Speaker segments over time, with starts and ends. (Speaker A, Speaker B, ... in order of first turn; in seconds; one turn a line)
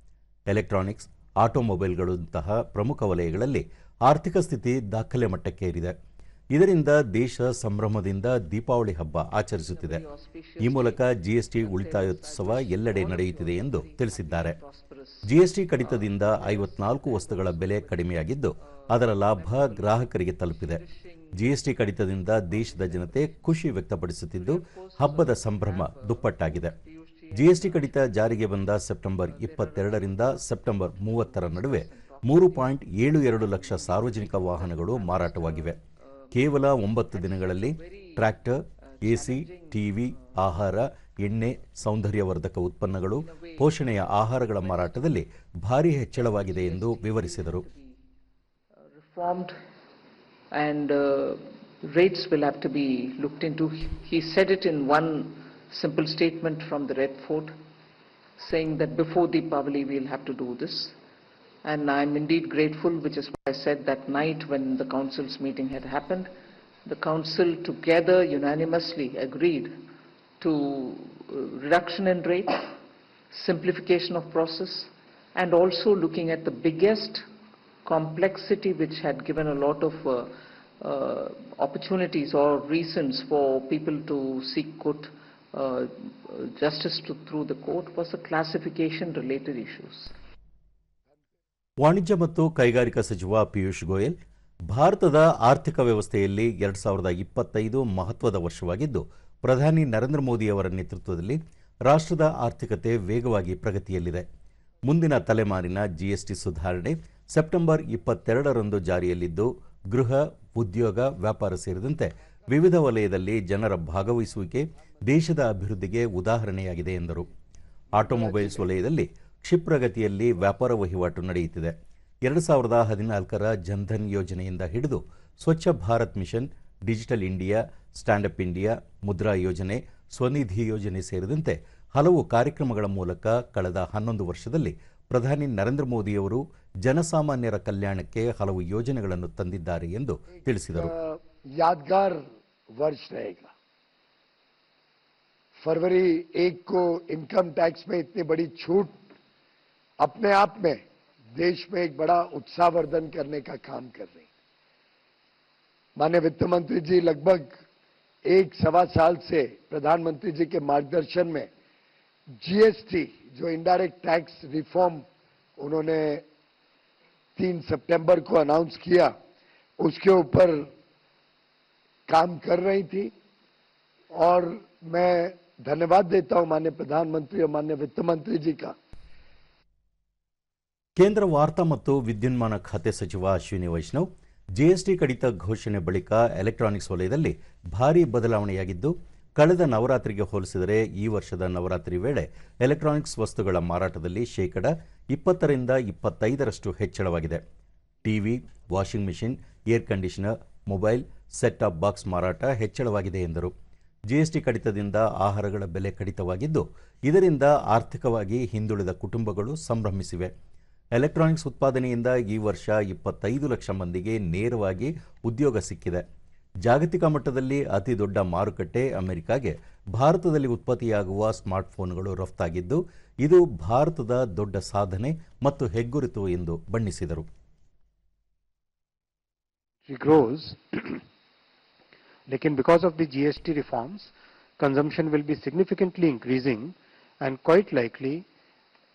Speaker A: 0.5-6.0
Speaker A: 6.5-10.0
Speaker B: 9.6-23.7
Speaker A: 10.6-14.6
Speaker A: 15.3-20.8
Speaker A: 21.4-26.8
Speaker B: 24.3-40.6
Speaker A: 27.3-35.8
Speaker A: 36.3-47.7
Speaker B: 41.1-41.4
Speaker B: 43.1-45.1
Speaker B: 46.1-48.0
Speaker B: 48.9-49.5
Speaker B: 50.5-57.5
Speaker B: 58.4-61.0
Speaker B: 61.6-66.3
Speaker B: 66.9-69.8
Speaker B: 70.4-72.8
Speaker B: 73.3-77.2
Speaker B: 77.8-90.1
Speaker A: 91.8-94.2
Speaker A: 94.7-104.3
Speaker A: 104.8-117.3
Speaker A: 117.9-121.7
Speaker A: 122.2-140.9
Speaker C: 140.8-142.2
Speaker C: 142.8-143.5
Speaker C: 145.6-149.0
Speaker C: 150.0-150.8
Speaker C: 151.4-154.2
Speaker C: 156.0-157.6
Speaker C: 158.2-161.5
Speaker C: 162.4-165.0
Speaker C: 165.6-166.2
Speaker C: 167.4-169.1
Speaker C: 169.8-170.7
Speaker C: 172.1-173.1
Speaker C: 174.1-178.8
Speaker A: 181.0-184.1
Speaker A: 184.6-197.4
Speaker A: 198.0-203.5
Speaker A: 204.1-210.3
Speaker A: 211.0-216.0
Speaker A: 216.7-227.3
Speaker D: 229.9-231.0
Speaker D: 232.3-238.2